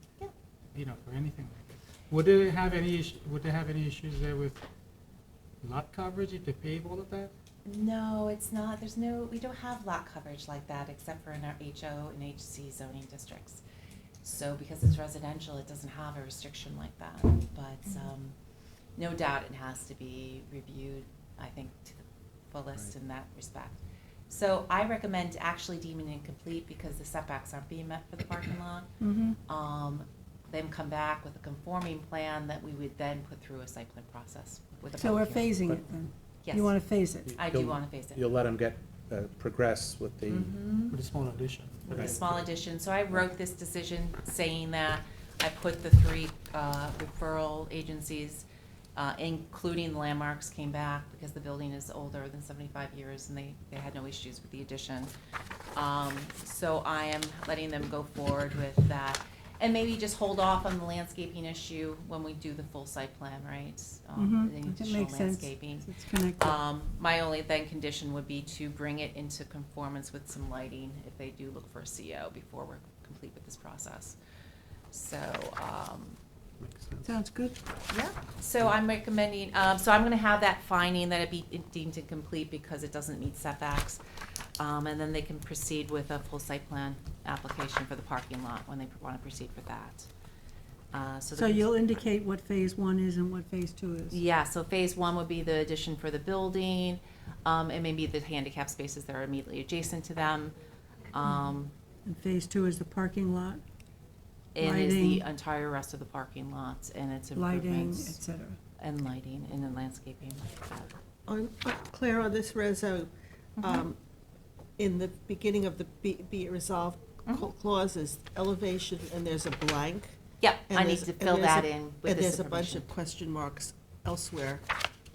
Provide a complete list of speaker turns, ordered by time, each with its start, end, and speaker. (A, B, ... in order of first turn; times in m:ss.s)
0:00.7-0:04.6 A
0:05.6-0:07.3 A
0:07.7-0:13.6 B
0:14.2-0:18.4 B
0:19.0-0:28.9 B
0:29.0-0:29.4 C
0:29.5-0:35.6 B
0:35.0-0:37.4 C
0:36.4-0:36.8 B
0:37.3-0:40.6 D
0:37.3-0:38.2 B
0:40.3-0:41.0 B
0:40.9-0:42.5 A
0:41.9-0:55.1 B
0:41.9-0:42.2 D
0:55.8-1:14.2 B
1:04.2-1:06.6 C
1:14.9-1:16.2 B
1:16.6-1:17.1 A
1:17.0-1:17.6 C
1:17.9-1:24.0 B
1:24.6-1:30.1 B
1:30.9-1:31.8 B
1:31.3-1:34.2 C
1:34.1-1:40.6 B
1:41.1-1:41.7 B
1:42.0-1:43.6 C
1:44.6-1:48.2 B
1:44.6-1:45.3 C
1:47.3-1:48.6 C
1:48.8-1:51.0 B
1:51.3-1:54.0 E
1:53.6-1:53.9 B
1:54.8-2:04.6 E
2:00.4-2:02.9 B